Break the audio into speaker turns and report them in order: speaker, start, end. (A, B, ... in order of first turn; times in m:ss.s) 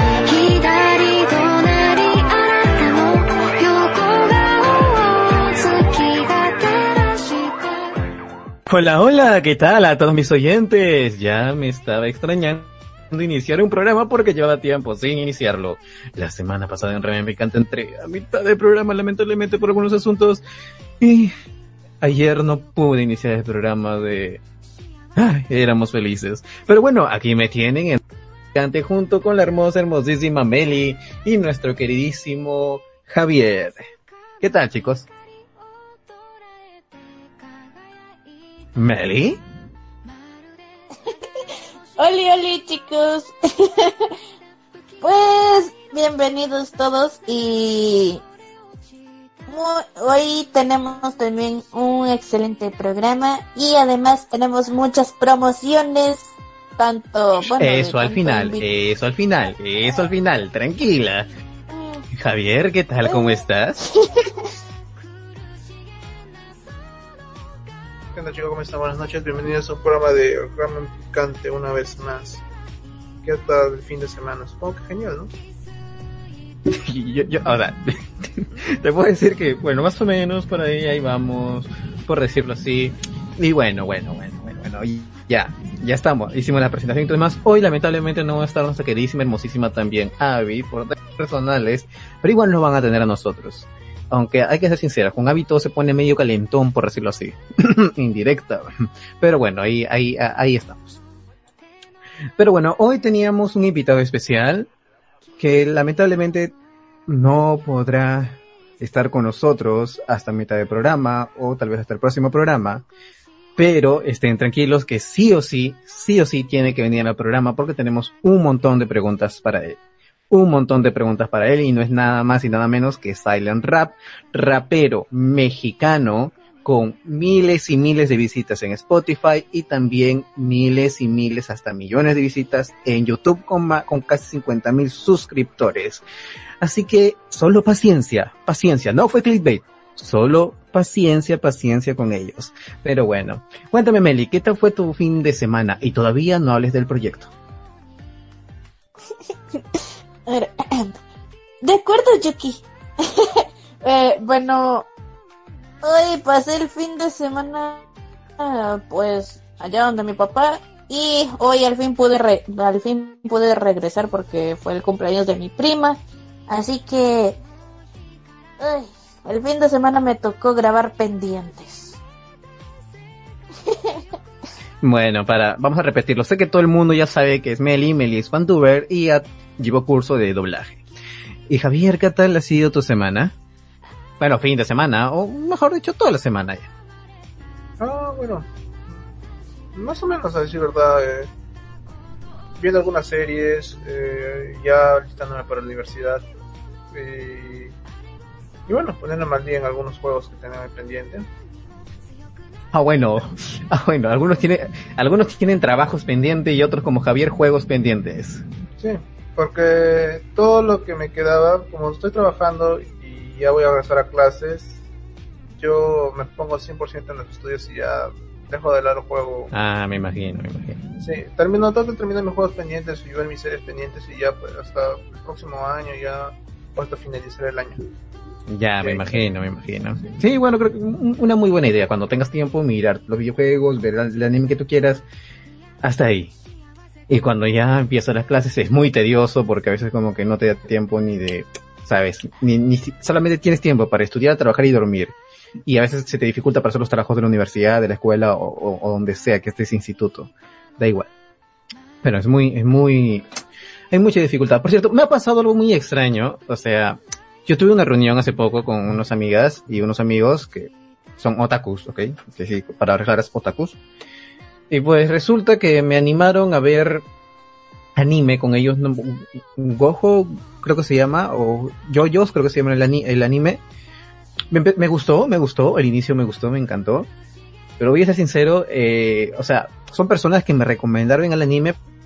0:00.2-0:07.9 A
0:08.7-0:20.4 B
0:21.0-0:21.3 B
0:22.0-0:24.4 B
0:25.2-0:28.0 B
0:28.5-0:33.9 B
0:34.4-0:35.1 B
0:38.7-0:39.4 B
0:42.0-0:44.1 C
0:45.0-0:48.2 C
0:49.5-0:58.6 C
0:57.6-1:01.3 B
1:01.7-1:02.0 C
1:02.1-1:03.8 B
1:08.1-1:12.4 D
1:13.2-1:15.3 D
1:16.7-1:41.0 B
1:42.4-1:44.7 B
1:45.4-1:46.5 B
1:47.1-1:52.8 B
1:53.6-1:59.8 B
2:00.3-2:16.0 B
2:16.6-2:27.3 B
2:29.7-2:30.9 C
2:31.6-2:34.9 C
2:35.8-2:37.8 C
2:38.4-2:47.4 C
2:48.6-2:52.0 C
2:54.8-3:00.8 B
3:01.5-3:03.3 B
3:04.2-3:06.7 B
3:07.8-3:08.5 D
3:09.7-3:11.3 D
3:12.6-3:16.2 D
3:16.9-3:17.7 D
3:18.7-3:21.3 D
3:22.7-3:28.4 B
3:28.8-3:34.8 D
3:35.6-3:39.5 D
3:39.5-3:40.8 B
3:41.0-3:47.8 D
3:48.5-3:55.0 B
3:48.8-3:49.1 D
3:55.8-3:56.3 B
3:57.1-4:11.1 B
4:12.0-4:13.2 B
4:13.9-4:23.8 B
4:24.7-4:27.0 B
4:28.0-4:33.6 B
4:34.5-4:37.1 B
4:37.8-4:41.8 B